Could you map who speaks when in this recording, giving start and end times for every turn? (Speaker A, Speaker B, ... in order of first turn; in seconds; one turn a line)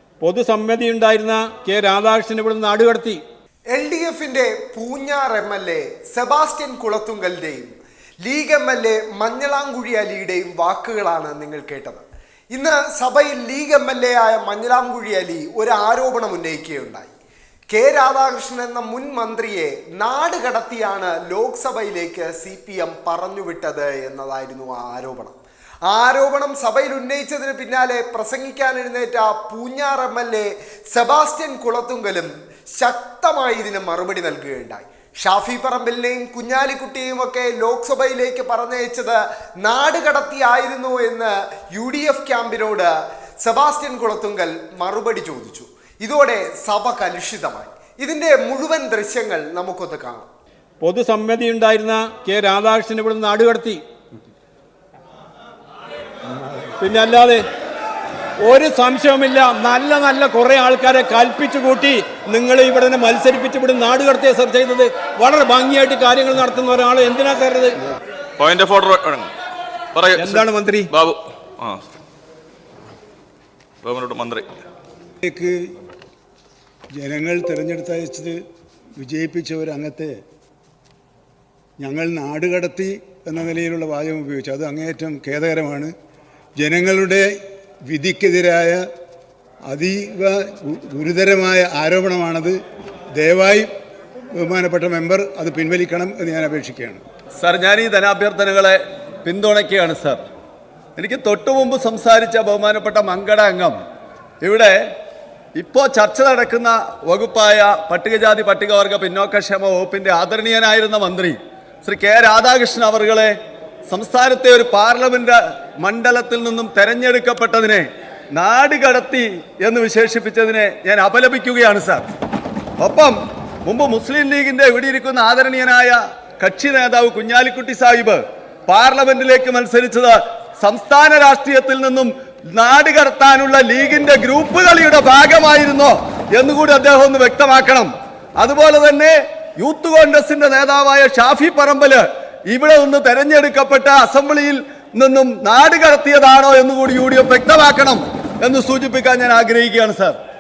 Speaker A: 0.2-3.2
Speaker B: 3.7-17.1
Speaker B: 17.7-50.3
Speaker A: 50.8-53.8
Speaker A: 56.8-57.4
Speaker A: 58.4-67.8
Speaker C: 68.4-69.3
Speaker C: 69.9-71.8
Speaker A: 70.2-70.9
Speaker C: 73.8-74.5
Speaker D: 75.2-75.7
Speaker D: 77.0-78.4
Speaker D: 79.0-80.2
Speaker D: 81.8-85.9
Speaker D: 86.6-87.3
Speaker D: 87.9-88.8
Speaker D: 89.7-92.6
Speaker D: 93.2-93.7
Speaker D: 94.4-97.0
Speaker E: 97.4-100.2
Speaker E: 101.0-103.8
Speaker E: 104.4-104.8
Speaker E: 105.6-113.4
Speaker E: 113.9-122.1
Speaker E: 122.8-150.2